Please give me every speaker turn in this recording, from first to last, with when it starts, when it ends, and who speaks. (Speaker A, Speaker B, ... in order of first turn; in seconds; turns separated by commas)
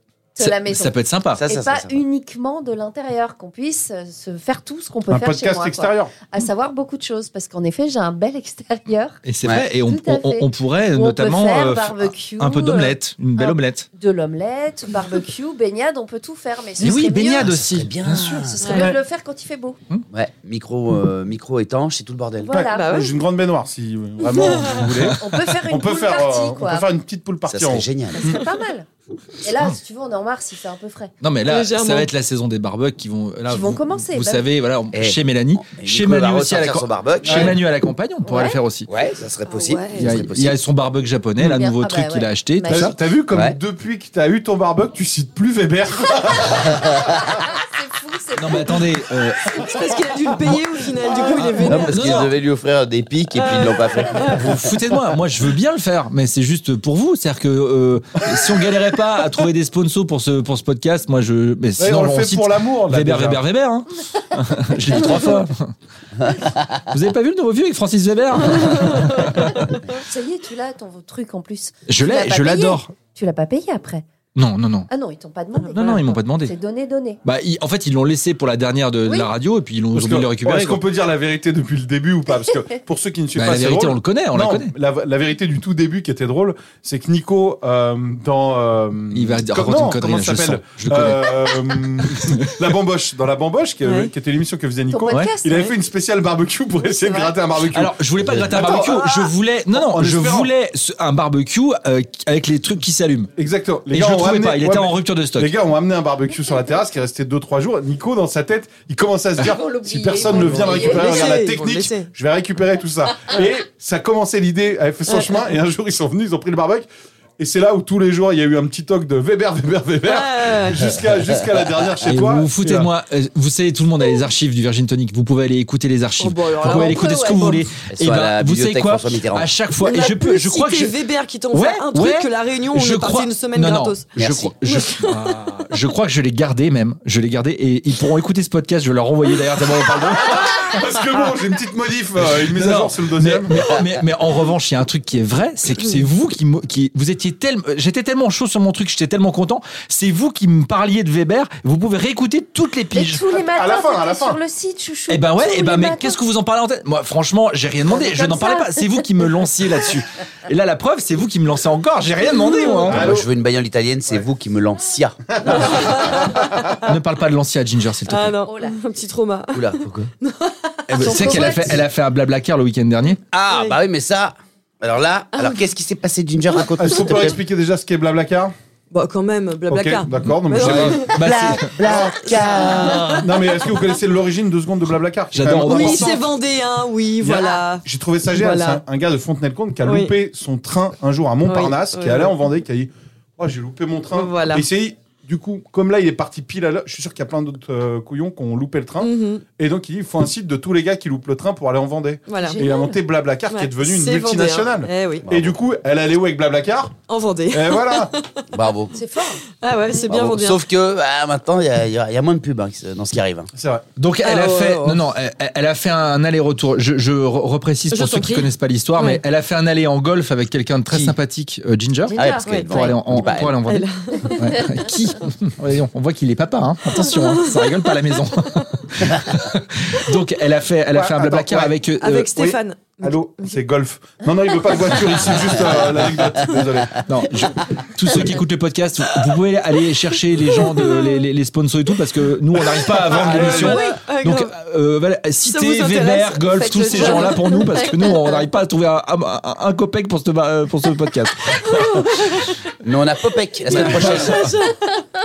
Speaker A: 0.4-9.2, Speaker B: 0.4-1.5, Speaker C: 1.3-2.0, Speaker D: 5.1-6.2, Speaker B: 9.2-13.9, Speaker C: 9.4-9.7, Speaker A: 9.8-17.6, Speaker B: 16.8-18.5, Speaker C: 17.4-18.9, Speaker A: 18.4-19.8, Speaker E: 18.6-18.9, Speaker D: 18.7-19.0, Speaker C: 20.1-22.7, Speaker A: 22.4-23.1, Speaker D: 22.5-28.4, Speaker E: 22.7-23.1, Speaker A: 24.3-26.9, Speaker E: 24.4-24.8, Speaker B: 24.7-25.2, Speaker C: 27.5-28.4, Speaker A: 28.2-28.9, Speaker A: 29.4-31.1, Speaker B: 31.2-38.9, Speaker E: 31.4-32.1, Speaker A: 33.5-34.4, Speaker C: 34.9-37.5, Speaker D: 37.2-37.5, Speaker A: 38.2-38.6, Speaker C: 38.9-40.6, Speaker E: 39.5-40.1, Speaker B: 40.0-43.0, Speaker A: 41.4-42.9, Speaker D: 42.7-47.2, Speaker C: 43.3-43.6, Speaker A: 47.3-48.9, Speaker B: 48.4-49.5, Speaker A: 49.5-49.8, Speaker E: 49.5-52.0, Speaker B: 51.4-52.3, Speaker C: 51.6-54.7, Speaker E: 53.3-54.4, Speaker B: 54.3-65.7, Speaker D: 61.8-63.4, Speaker A: 64.7-65.4, Speaker B: 66.9-69.7, Speaker A: 68.9-74.0, Speaker B: 71.9-72.9, Speaker B: 74.3-74.9, Speaker A: 74.9-77.2, Speaker B: 75.7-76.5, Speaker B: 77.2-80.8, Speaker D: 79.9-99.1, Speaker B: 83.3-84.7, Speaker B: 89.1-92.7, Speaker E: 93.8-94.1, Speaker A: 94.9-95.8, Speaker A: 97.0-97.3, Speaker B: 97.7-103.3, Speaker C: 98.2-98.6, Speaker D: 99.7-100.5, Speaker D: 103.4-122.9, Speaker B: 103.9-105.5, Speaker A: 109.4-111.4, Speaker E: 110.8-112.1, Speaker E: 115.1-115.4, Speaker E: 120.0-120.9, Speaker B: 122.0-131.0, Speaker E: 126.2-127.6, Speaker A: 126.6-127.6, Speaker C: 127.9-129.5, Speaker E: 129.8-134.1, Speaker B: 131.5-140.8, Speaker C: 134.2-134.5, Speaker E: 134.6-135.5, Speaker D: 140.4-143.7, Speaker B: 142.2-153.2, Speaker A: 152.9-156.2, Speaker D: 153.5-154.4, Speaker B: 155.1-163.2, Speaker A: 157.9-159.0, Speaker D: 162.8-163.3, Speaker C: 162.9-166.0, Speaker E: 165.4-166.9, Speaker B: 166.8-168.4, Speaker E: 168.1-171.2, Speaker A: 168.4-168.8, Speaker C: 169.5-170.1, Speaker B: 170.9-173.2, Speaker A: 171.0-171.8, Speaker C: 173.3-177.4, Speaker E: 173.5-173.8, Speaker D: 176.8-178.5, Speaker E: 178.9-181.2, Speaker D: 179.7-181.2, Speaker B: 180.2-181.8, Speaker C: 181.1-183.2, Speaker E: 181.8-183.2, Speaker B: 182.7-183.3, Speaker D: 183.2-186.2, Speaker B: 185.3-186.2, Speaker E: 185.7-188.8, Speaker D: 187.2-207.0, Speaker E: 189.8-190.1, Speaker E: 191.4-192.3, Speaker E: 194.1-194.7, Speaker E: 199.0-199.4, Speaker E: 202.3-202.6, Speaker A: 202.4-203.0, Speaker E: 203.5-205.2, Speaker C: 205.2-205.6, Speaker E: 207.1-208.4, Speaker D: 207.5-208.1, Speaker C: 208.5-208.9, Speaker A: 208.9-209.4, Speaker E: 209.6-210.6, Speaker C: 210.1-213.5, Speaker D: 213.5-213.8, Speaker B: 214.0-232.3, Speaker E: 214.2-215.0, Speaker E: 217.9-219.2, Speaker A: 222.1-222.9, Speaker C: 222.1-223.6, Speaker E: 222.4-222.8, Speaker E: 223.7-224.5, Speaker A: 224.2-224.6, Speaker E: 227.0-228.7, Speaker D: 230.9-231.8, Speaker E: 232.0-233.5, Speaker D: 232.3-237.1, Speaker B: 237.0-252.5, Speaker E: 240.4-241.2, Speaker D: 242.7-243.8, Speaker E: 243.2-244.5, Speaker E: 245.4-247.8, Speaker A: 246.5-248.2, Speaker E: 251.5-252.6, Speaker C: 252.8-254.5, Speaker E: 253.7-255.0